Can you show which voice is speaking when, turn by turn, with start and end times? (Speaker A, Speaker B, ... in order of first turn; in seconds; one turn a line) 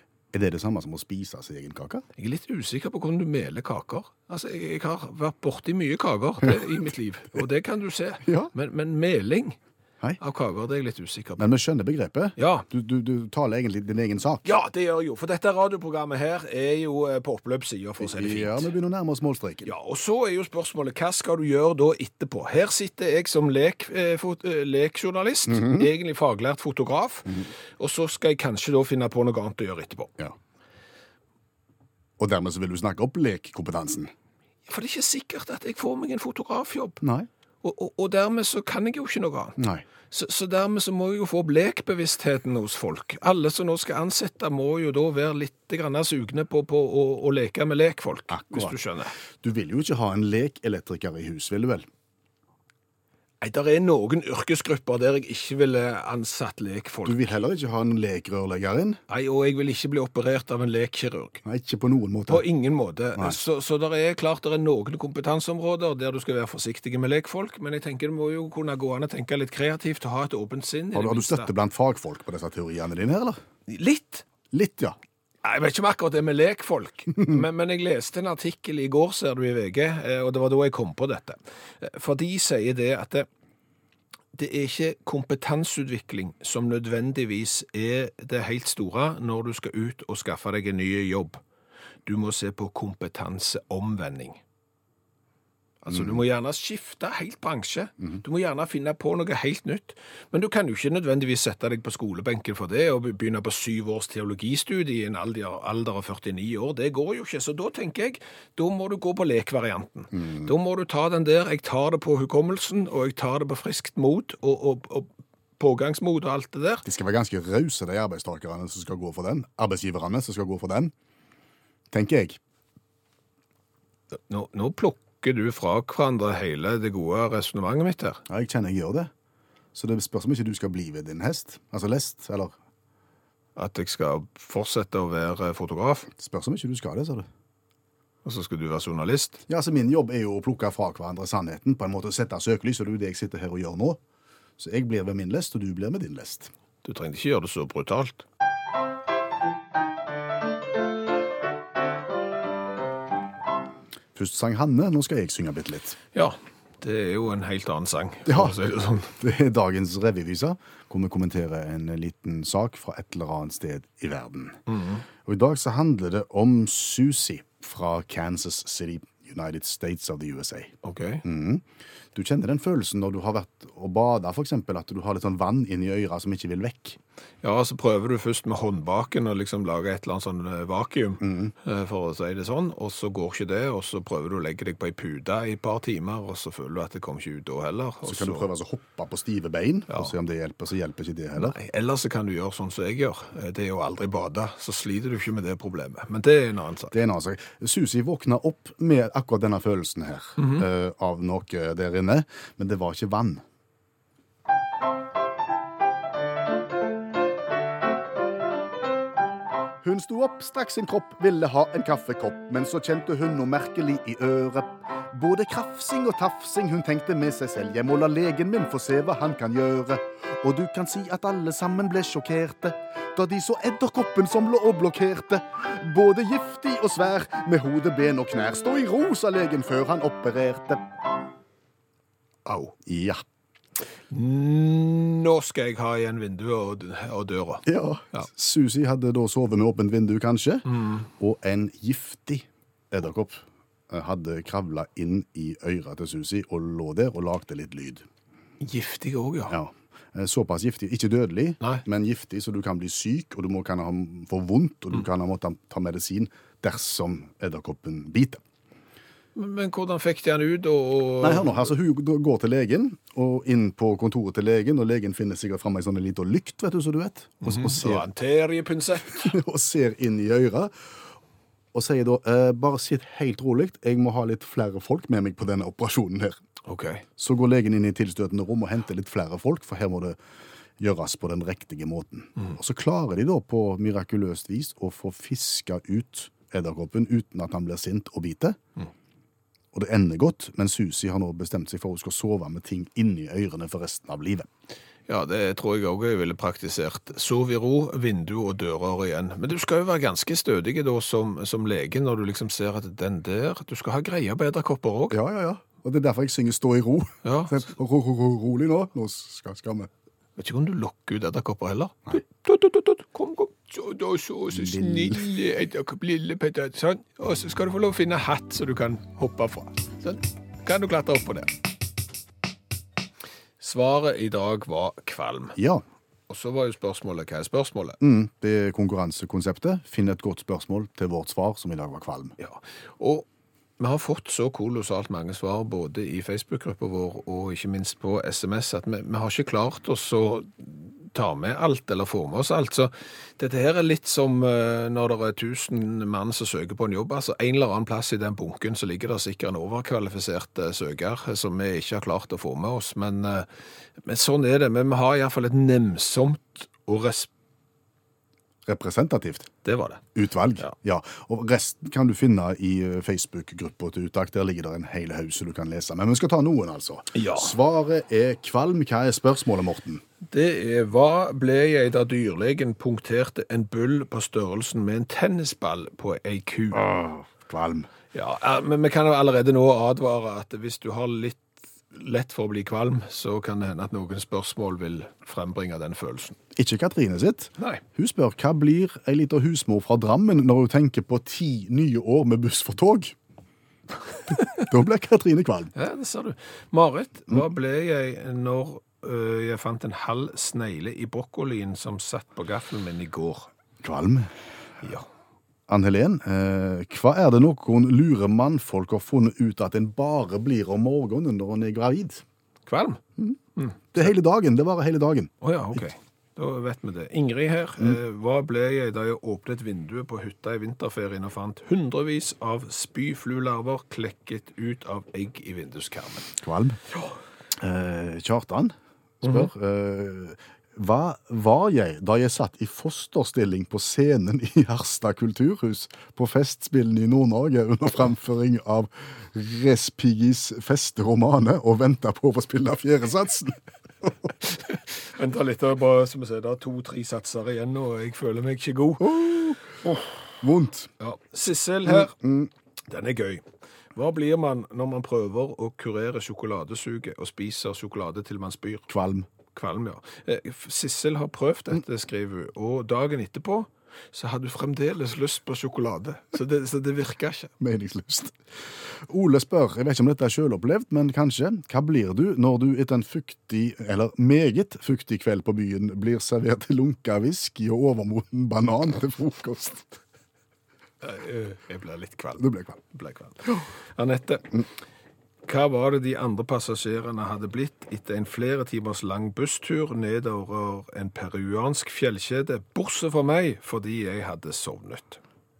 Speaker A: 0.3-2.0
Speaker B: 2.2-9.6
Speaker A: 8.2-8.5
Speaker B: 10.2-11.4
Speaker A: 11.4-14.5
Speaker B: 12.4-12.7
Speaker B: 14.4-18.7
Speaker A: 18.0-19.7
Speaker B: 19.6-30.1
Speaker A: 25.5-25.9
Speaker A: 32.2-34.1
Speaker B: 34.7-37.0
Speaker A: 37.0-37.3
Speaker B: 37.6-49.1
Speaker A: 39.6-39.9
Speaker A: 48.3-48.8
Speaker A: 49.4-51.9
Speaker B: 53.4-57.3
Speaker A: 57.0-59.0
Speaker B: 59.1-61.4
Speaker A: 61.4-62.4
Speaker B: 62.3-71.5
Speaker A: 71.0-73.4
Speaker B: 73.7-74.2
Speaker A: 74.5-75.0
Speaker B: 75.4-83.3
Speaker B: 84.3-91.4
Speaker B: 92.0-94.4
Speaker B: 95.8-116.8
Speaker A: 95.9-96.2
Speaker A: 110.1-110.5
Speaker A: 116.8-120.9
Speaker A: 121.9-122.4
Speaker B: 124.2-128.2
Speaker A: 128.3-129.1
Speaker A: 129.8-132.5
Speaker B: 133.6-136.1
Speaker A: 136.1-137.3
Speaker B: 138.2-139.4
Speaker A: 139.5-144.0
Speaker A: 144.6-146.5
Speaker B: 146.8-148.2
Speaker A: 154.1-156.0
Speaker B: 156.1-159.1
Speaker A: 158.2-158.6
Speaker A: 159.2-164.6
Speaker B: 164.7-165.0
Speaker A: 165.2-177.0
Speaker B: 170.8-171.2
Speaker B: 177.4-188.5
Speaker A: 181.2-181.5
Speaker A: 188.0-191.6
Speaker B: 191.4-196.9
Speaker A: 196.9-203.4
Speaker B: 200.4-200.6
Speaker A: 209.8-230.9
Speaker B: 232.4-232.8
Speaker A: 232.8-233.2
Speaker B: 234.1-238.3
Speaker A: 237.6-248.0
Speaker B: 240.7-241.0
Speaker B: 248.6-249.5
Speaker A: 249.5-258.4
Speaker B: 259.4-261.7
Speaker A: 261.2-268.1
Speaker B: 267.4-269.3
Speaker A: 269.1-270.7
Speaker A: 271.7-276.4
Speaker B: 276.6-277.0
Speaker A: 277.2-280.2
Speaker A: 280.8-288.6
Speaker A: 289.7-294.5
Speaker B: 295.1-305.2
Speaker A: 305.1-309.9
Speaker B: 307.2-307.7
Speaker B: 310.4-321.5
Speaker A: 314.5-315.2
Speaker B: 323.6-325.6
Speaker A: 325.6-325.8
Speaker B: 326.3-328.0
Speaker A: 328.0-332.4
Speaker B: 332.4-333.3
Speaker B: 333.8-353.5
Speaker B: 354.0-357.3
Speaker A: 358.6-359.5
Speaker B: 359.6-360.0
Speaker A: 360.1-370.0
Speaker B: 367.1-367.6
Speaker B: 370.3-376.9
Speaker A: 376.7-377.9
Speaker B: 378.1-386.4
Speaker A: 386.5-393.1
Speaker A: 394.3-395.7
Speaker B: 395.8-403.5
Speaker A: 403.8-404.3
Speaker A: 405.7-412.2
Speaker B: 412.7-413.0
Speaker A: 413.9-415.8
Speaker B: 415.4-426.4
Speaker A: 426.4-426.8
Speaker A: 427.6-444.3
Speaker B: 429.2-429.5
Speaker B: 445.0-449.3
Speaker A: 449.0-450.9
Speaker B: 451.0-452.1
Speaker A: 451.9-452.5
Speaker B: 452.9-453.4
Speaker B: 453.9-458.9
Speaker A: 458.9-459.3
Speaker B: 459.5-467.5
Speaker A: 467.6-468.4
Speaker A: 468.9-480.0
Speaker B: 481.0-484.6
Speaker A: 482.4-482.8
Speaker B: 485.4-495.2